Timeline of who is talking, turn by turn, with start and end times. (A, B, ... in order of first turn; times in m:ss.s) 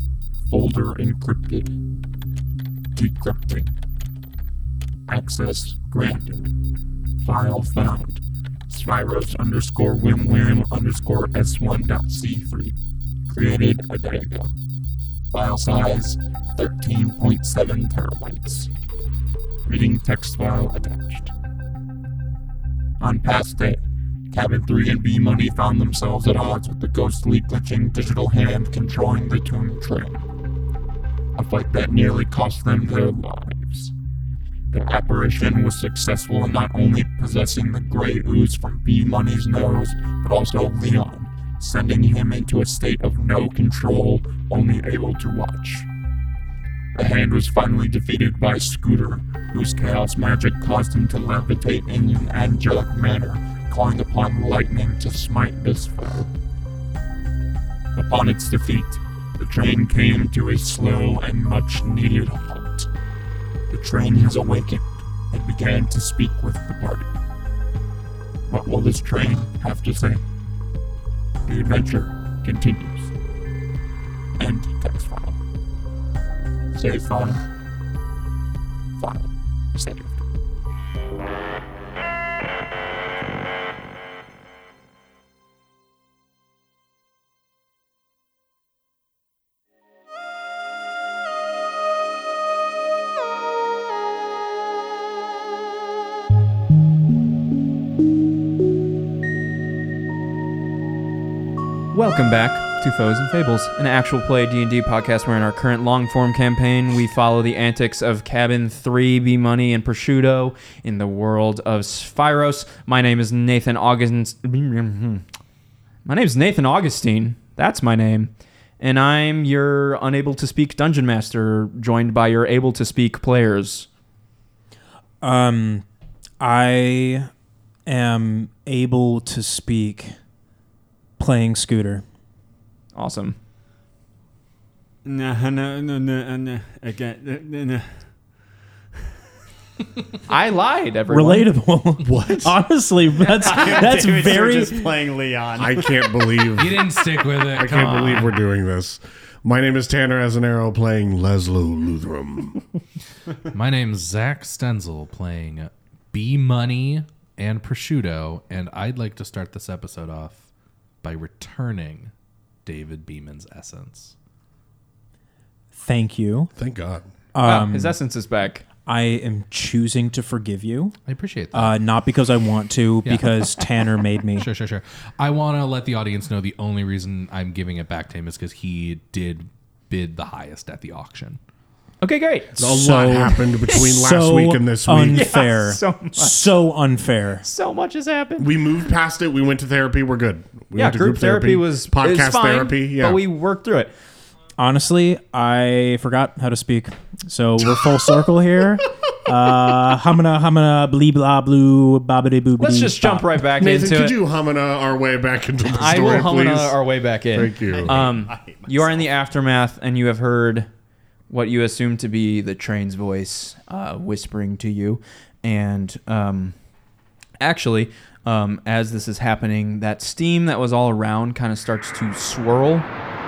0:00.5-0:01.7 A
0:02.9-0:03.7 A
0:05.1-0:06.5 A
0:07.2-0:12.7 A
0:13.3-0:14.5 A
0:15.3-0:18.7 A
0:19.6-0:21.3 A
0:23.0-0:23.8 A
0:24.3-0:30.2 A
0:31.4-0:33.9 A
0:34.7-0:45.9 A
0:46.9-0:56.3 A
0:57.9-1:02.9 A
1:03.7-1:07.1 A
1:08.5-1:10.2 A
1:11.4-1:13.1 A
1:14.4-1:15.4 A
1:16.7-1:17.4 A
1:19.0-1:20.1 A
1:41.9-1:55.2 B
1:56.0-2:03.9 B
2:05.2-2:05.8 C
2:06.4-2:07.3 C
2:07.8-2:10.1 C
2:11.2-2:12.0 C
2:12.9-2:13.4 B
2:15.0-2:18.0 D
2:20.2-2:21.5 B
2:21.1-2:24.9 C
2:22.0-2:22.6 E
2:23.2-2:23.9 B
2:23.4-2:26.4 D
2:25.6-2:26.8 E
2:26.5-2:28.4 F
2:27.5-2:32.6 E
2:33.5-2:40.5 F
2:41.0-2:42.1 F
2:42.6-2:44.1 F
2:45.7-2:46.5 C
2:46.6-2:47.1 E
2:47.3-2:48.0 C
2:47.4-2:48.6 B
2:48.8-2:51.0 C
2:51.1-2:51.8 F
2:51.5-2:54.5 C
2:53.0-2:53.7 F
2:54.3-3:01.4 F
3:02.0-3:02.8 B
3:02.6-3:07.4 C
3:02.6-3:05.3 E
3:05.1-3:06.5 B
3:07.4-3:08.5 B
3:08.4-3:13.2 E
3:10.7-3:13.9 B
3:14.6-3:23.4 C
3:22.6-3:24.2 B
3:23.5-3:28.0 E
3:25.7-3:30.7 B
3:27.6-3:29.1 D
3:31.3-3:36.6 B
3:37.4-3:42.9 B